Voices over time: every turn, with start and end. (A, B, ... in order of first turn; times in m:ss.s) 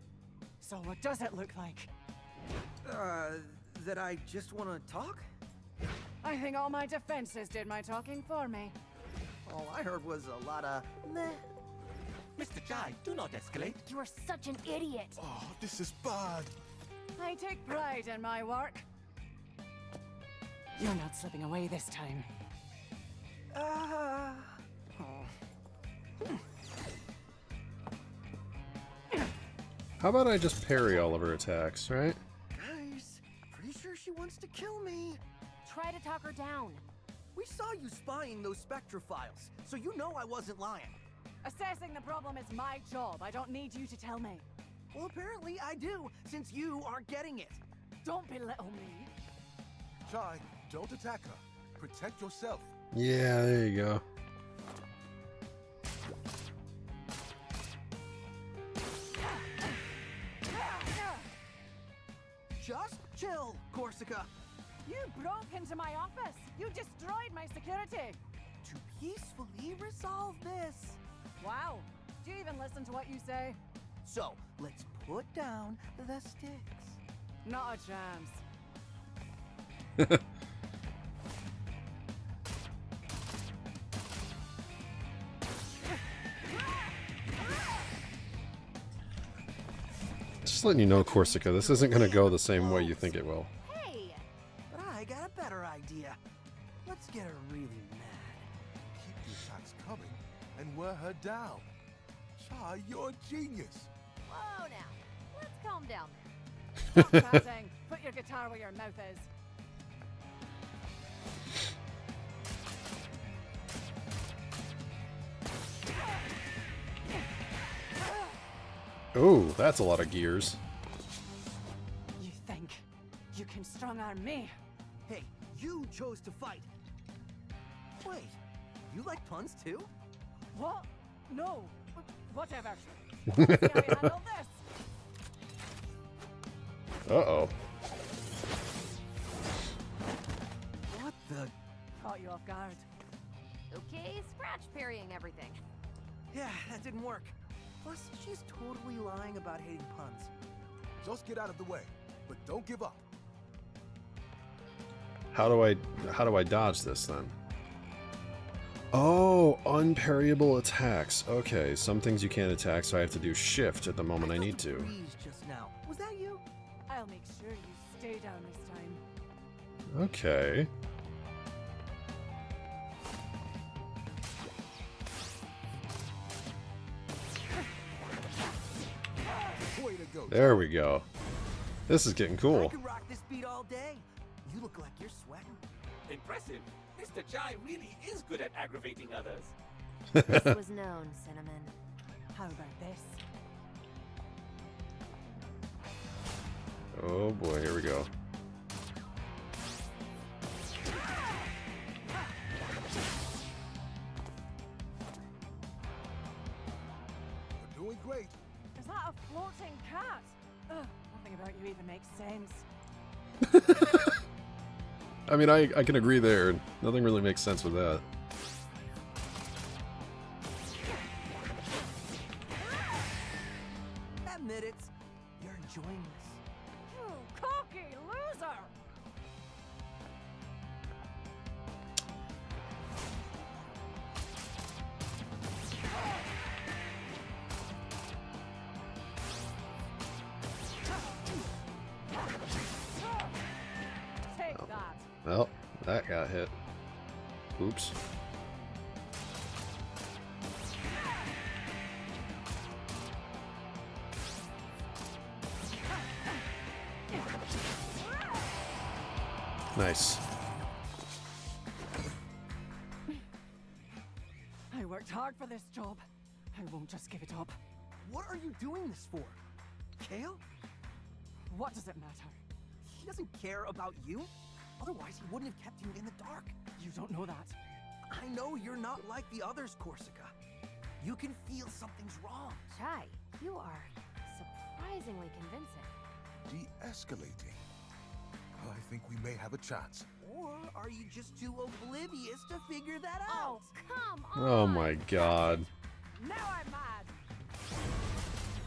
0:00.6-0:01.9 A
0:02.8-0:05.3 B
0:06.2-0:08.8 A
0:09.4-0:11.4 B
0:12.4-0:13.8 C
0:13.8-0:15.2 A
0:15.2-0:16.5 D
0:17.1-0:18.8 A
0:20.8-0:22.3 A
0:23.5-0:25.3 B
0:30.0-0:32.2 E
0:32.5-0:35.2 B
0:35.6-0:36.9 F
0:37.3-0:41.0 B
0:41.4-0:44.5 A
0:44.9-0:47.6 B
0:48.0-0:49.1 A
0:50.0-0:52.7 D
0:52.9-0:54.0 E
1:00.5-1:01.3 A
1:02.6-1:04.3 B
1:04.8-1:08.2 A
1:08.6-1:11.0 B
1:11.4-1:13.6 A
1:14.0-1:17.0 B
1:17.4-1:18.4 A
1:30.4-1:33.5 E
1:30.9-1:33.0 B
1:33.6-1:34.2 F
1:34.7-1:36.2 B
1:36.8-1:38.5 B
1:38.9-1:41.7 D
1:42.4-1:43.9 D
1:44.2-1:46.3 F
1:46.9-1:49.3 A
1:59.1-2:00.6 E
2:02.2-2:04.5 A
2:05.0-2:06.7 B
2:08.0-2:09.9 B
2:10.5-2:14.6 A
2:13.3-2:14.1 E
2:17.1-2:17.5 E
2:20.8-2:21.5 B
2:22.0-2:22.8 A
2:23.7-2:25.6 F
2:26.3-2:30.3 B
2:31.0-2:33.0 D
2:35.3-2:37.3 E
2:38.9-2:44.9 E
2:44.2-2:46.4 B
2:46.9-2:49.0 A
2:49.9-2:50.7 E
2:59.6-3:00.7 D
3:00.3-3:01.0 E
3:01.9-3:02.8 E
3:02.4-3:05.6 B
3:06.1-3:09.5 C
3:10.1-3:10.6 E
3:10.2-3:11.7 F
3:12.3-3:13.2 A
3:16.9-3:18.1 E
3:27.6-3:28.4 D
3:28.7-3:32.6 A
3:33.4-3:34.1 E
3:35.3-3:38.0 E
3:44.2-3:46.4 B
3:46.9-3:48.7 A
4:04.2-4:05.1 A
4:05.2-4:06.5 E
4:07.5-4:08.0 E
4:19.7-4:20.2 E
4:24.7-4:27.6 A
4:28.0-4:29.4 B
4:30.0-4:30.4 B
4:31.5-4:32.4 A
4:32.8-4:36.6 B
4:36.8-4:37.6 A
4:38.1-4:40.3 B
4:41.0-4:42.7 B
4:42.7-4:45.9 F
4:46.4-4:47.6 D
4:48.6-4:50.1 D
4:50.2-4:53.7 B
4:53.3-4:55.7 F
4:54.4-4:55.7 E
4:56.1-4:57.2 A